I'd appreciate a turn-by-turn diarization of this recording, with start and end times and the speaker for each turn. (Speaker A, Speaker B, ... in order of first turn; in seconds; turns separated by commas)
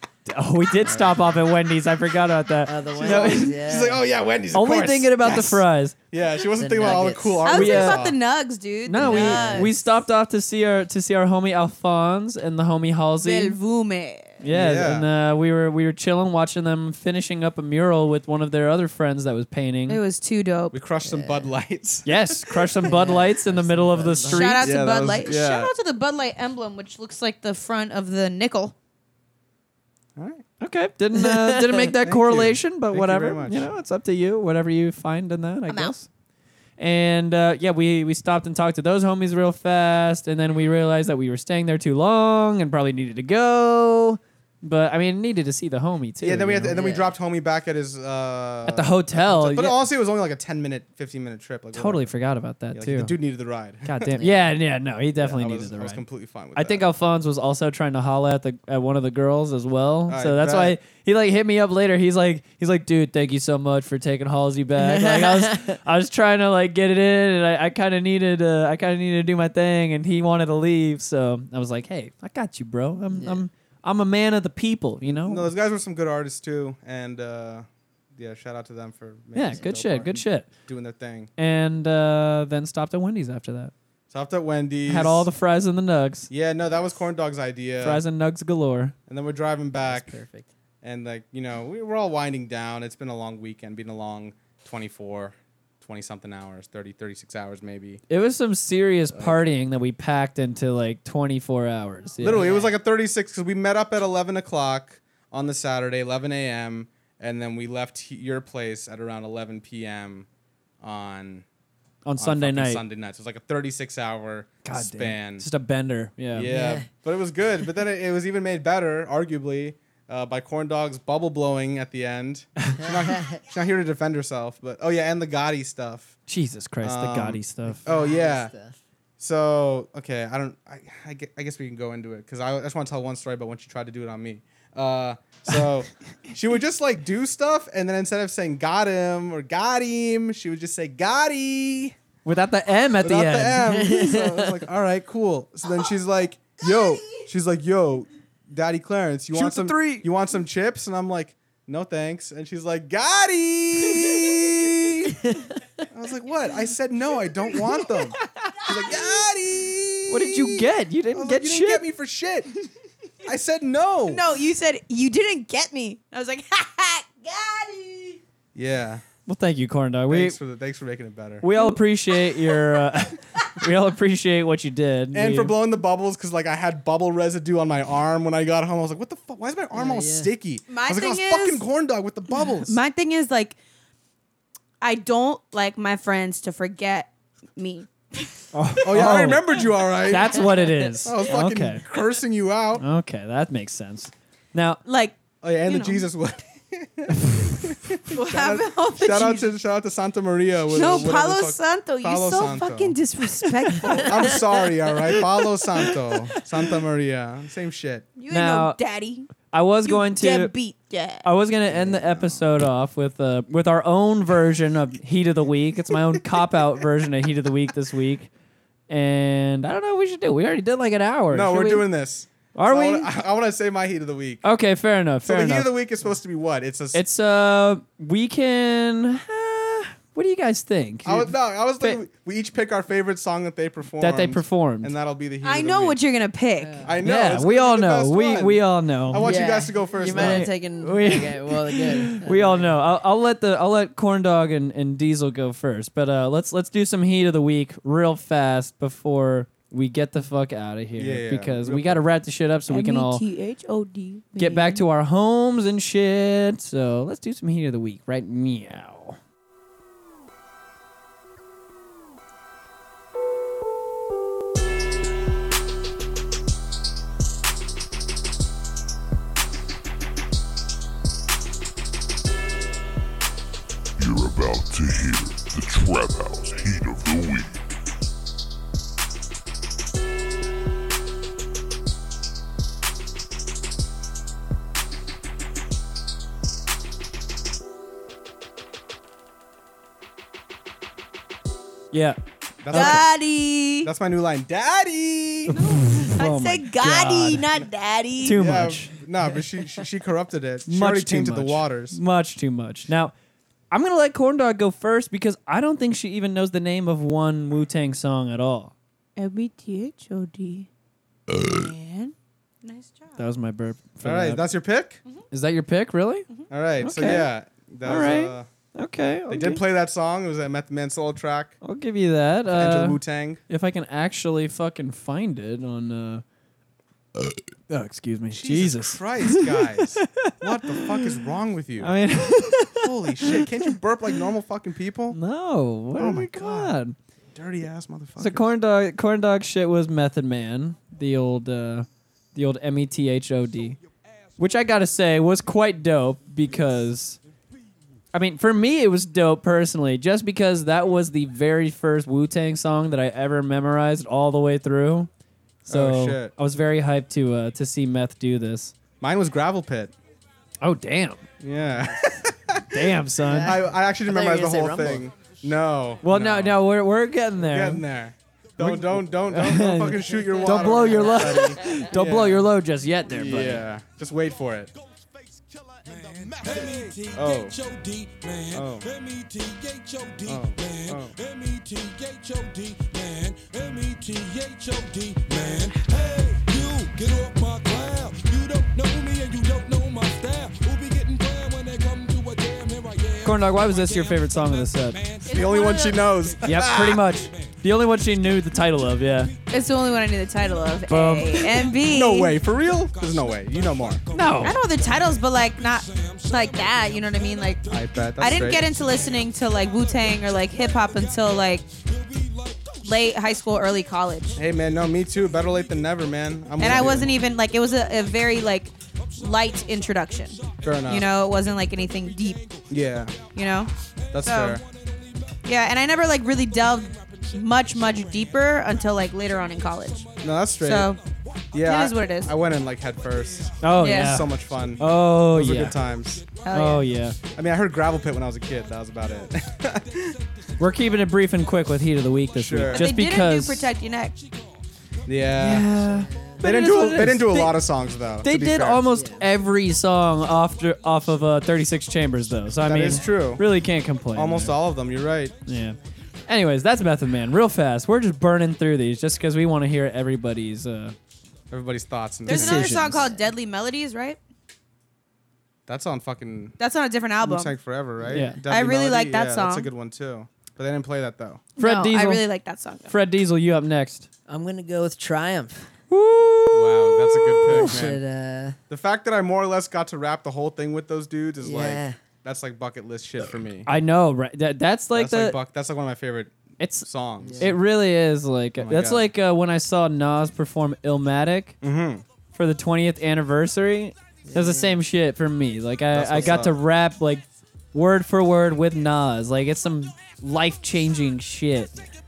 Speaker A: 0.3-3.6, Speaker B: 0.9-1.2, Speaker C: 2.7-4.0, Speaker B: 3.0-8.2, Speaker A: 4.5-6.0, Speaker C: 6.6-7.5, Speaker D: 7.5-9.8, Speaker A: 7.5-8.0, Speaker A: 8.9-13.6, Speaker C: 9.0-9.8, Speaker D: 13.2-14.4, Speaker A: 14.4-20.0, Speaker B: 14.5-15.1, Speaker D: 19.9-20.8, Speaker B: 20.7-22.9, Speaker C: 21.0-21.5, Speaker A: 22.1-24.7, Speaker C: 22.8-24.7, Speaker D: 24.3-28.8, Speaker B: 24.6-25.7, Speaker B: 30.2-30.4, Speaker A: 30.6-36.1, Speaker C: 31.1-31.9, Speaker B: 32.0-33.7, Speaker D: 35.7-35.9, Speaker A: 36.8-46.8, Speaker B: 46.2-52.1, Speaker C: 46.7-47.2, Speaker A: 48.7-49.8, Speaker A: 51.7-53.1, Speaker B: 52.7-54.1, Speaker A: 53.9-56.0, Speaker C: 54.2-54.4, Speaker B: 55.2-56.9, Speaker A: 56.5-75.5, Speaker B: 60.1-60.8, Speaker C: 64.8-65.8, Speaker C: 73.1-73.4, Speaker B: 75.1-81.3, Speaker A: 79.3-80.5, Speaker A: 81.4-83.7, Speaker B: 84.1-85.3, Speaker A: 84.9-86.3, Speaker B: 86.3-88.0, Speaker A: 87.8-88.9, Speaker B: 89.1-90.2, Speaker C: 89.8-90.5, Speaker B: 90.8-98.0, Speaker A: 98.1-102.5, Speaker B: 102.2-110.3, Speaker C: 102.3-102.8, Speaker B: 110.8-111.5, Speaker A: 112.0-112.8, Speaker B: 112.2-115.5, Speaker A: 114.6-116.5, Speaker B: 116.3-126.2, Speaker C: 116.5-116.9, Speaker C: 122.8-123.4, Speaker A: 126.3-127.8, Speaker B: 126.8-128.5, Speaker C: 127.7-128.8, Speaker B: 129.2-142.0, Speaker A: 142.2-143.8, Speaker B: 143.0-155.3, Speaker C: 143.6-144.7, Speaker D: 146.7-146.9, Speaker A: 149.3-150.1, Speaker B: 155.9-162.5, Speaker D: 158.7-159.1, Speaker A: 160.1-161.8, Speaker B: 163.2-164.2, Speaker D: 164.1-168.2, Speaker B: 168.6-169.0, Speaker A: 169.3-170.4, Speaker B: 170.1-171.5, Speaker A: 171.4-175.6, Speaker B: 175.1-182.8, Speaker C: 179.7-180.3, Speaker D: 180.7-181.6, Speaker D: 182.3-183.6, Speaker D: 184.8-188.4, Speaker A: 188.5-189.6, Speaker B: 188.8-192.8, Speaker A: 190.1-191.8, Speaker A: 192.8-194.8, Speaker D: 194.8-196.1, Speaker B: 195.4-203.0, Speaker A: 197.2-197.6, Speaker D: 198.1-199.5, Speaker D: 200.7-204.6, Speaker A: 200.8-201.1, Speaker A: 203.7-204.0, Speaker B: 204.0-208.1, Speaker D: 208.2-209.3, Speaker A: 208.3-208.8, Speaker A: 209.5-210.5, Speaker D: 209.8-211.3, Speaker A: 211.2-218.3, Speaker B: 211.7-212.4, Speaker A: 218.9-221.9, Speaker B: 221.3-224.4, Speaker A: 222.5-223.1, Speaker A: 224.4-225.7, Speaker B: 225.2-227.0, Speaker A: 226.9-232.0, Speaker B: 231.1-236.0, Speaker A: 234.0-234.9, Speaker D: 235.4-236.9, Speaker C: 236.6-236.9, Speaker B: 236.8-240.5, Speaker A: 237.0-239.4, Speaker C: 239.2-242.8, Speaker A: 240.1-253.2, Speaker B: 251.0-252.0, Speaker D: 252.7-254.8, Speaker A: 254.4-259.2, Speaker E: 274.0-277.6, Speaker A: 291.9-292.2, Speaker B: 292.6-293.1, Speaker A: 292.7-293.0, Speaker D: 292.7-293.9, Speaker B: 293.8-295.6, Speaker A: 295.5-297.5, Speaker D: 295.5-298.4, Speaker A: 298.2-298.9, Speaker B: 298.3-302.0, Speaker A: 300.7-303.1, Speaker A: 303.7-308.7, Speaker D: 309.2-310.7, Speaker D: 311.3-313.2, Speaker A: 313.2-314.4, Speaker B: 314.0-315.0, Speaker A: 315.3-316.3, Speaker B: 316.5-318.5, Speaker A: 316.8-317.3, Speaker A: 317.8-319.6, Speaker B: 319.3-321.6, Speaker A: 321.6-326.2, Speaker B: 322.5-323.4, Speaker A: 327.7-331.1, Speaker B: 328.3-332.0, Speaker A: 331.8-333.7, Speaker B: 332.7-335.2, Speaker A: 335.1-337.0, Speaker B: 336.0-336.8, Speaker B: 337.3-338.5, Speaker A: 338.2-343.8, Speaker F: 344.1-344.7, Speaker A: 344.4-347.2, Speaker A: 348.1-355.1, Speaker A: 355.6-358.7, Speaker B: 355.7-356.3, Speaker B: 359.0-359.9, Speaker A: 360.6-361.2, Speaker B: 361.4-366.6, Speaker C: 361.8-362.2, Speaker A: 362.7-363.6, Speaker C: 363.2-365.1, Speaker A: 366.0-367.8, Speaker B: 367.4-372.5, Speaker A: 368.6-373.6, Speaker C: 370.5-371.5, Speaker B: 373.1-374.7, Speaker F: 375.7-435.0, Speaker B: 376.4-377.6, Speaker B: 378.5-378.9, Speaker B: 380.3-381.1, Speaker A: 393.2-395.0, Speaker D: 395.3-396.1, Speaker B: 395.3-397.0, Speaker A: 396.4-399.3, Speaker D: 399.5-402.4, Speaker A: 400.9-401.4, Speaker B: 401.9-404.0, Speaker A: 404.1-404.6, Speaker D: 404.4-407.6, Speaker B: 407.7-408.7, Speaker D: 408.2-411.6, Speaker D: 412.8-414.4, Speaker B: 414.4-417.1, Speaker D: 416.6-422.4, Speaker B: 420.6-421.1, Speaker B: 422.7-423.2, Speaker D: 423.4-423.7, Speaker B: 424.1-424.6, Speaker D: 424.2-424.6, Speaker D: 425.4-430.1, Speaker B: 430.2-430.9, Speaker D: 430.6-431.0, Speaker B: 431.5-436.2, Speaker D: 431.6-432.3, Speaker A: 433.6-435.8, Speaker D: 433.8-434.2, Speaker F: 435.9-437.4, Speaker D: 436.4-436.9, Speaker A: 436.5-437.2, Speaker B: 437.4-440.1, Speaker F: 438.1-442.4, Speaker A: 440.6-443.7, Speaker B: 442.4-442.9, Speaker D: 442.7-444.1, Speaker F: 443.9-444.6, Speaker B: 445.1-445.8, Speaker A: 445.4-447.6, Speaker C: 445.9-446.4, Speaker B: 446.4-448.8, Speaker A: 448.2-454.6, Speaker C: 448.9-449.2, Speaker F: 450.1-452.7, Speaker B: 452.6-453.4, Speaker B: 454.1-455.4, Speaker A: 455.4-461.0, Speaker B: 461.5-462.9, Speaker D: 462.3-464.2, Speaker A: 462.3-463.1, Speaker C: 462.9-463.2, Speaker B: 465.7-466.6, Speaker D: 466.6-467.5, Speaker B: 467.2-471.4, Speaker C: 468.0-468.4, Speaker A: 468.1-468.4, Speaker D: 468.5-469.7, Speaker A: 471.6-472.2, Speaker D: 471.6-472.9, Speaker A: 472.9-474.1, Speaker C: 474.3-475.7, Speaker A: 475.9-477.9, Speaker B: 476.5-478.0, Speaker C: 477.5-478.6, Speaker B: 478.7-483.7, Speaker C: 481.4-482.0, Speaker A: 483.7-485.4, Speaker B: 484.9-487.6, Speaker A: 486.6-491.6, Speaker C: 487.2-487.6, Speaker B: 488.6-489.1, Speaker B: 491.6-492.0, Speaker A: 492.3-501.8, Speaker C: 494.2-494.8, Speaker B: 495.9-496.6, Speaker C: 496.2-496.4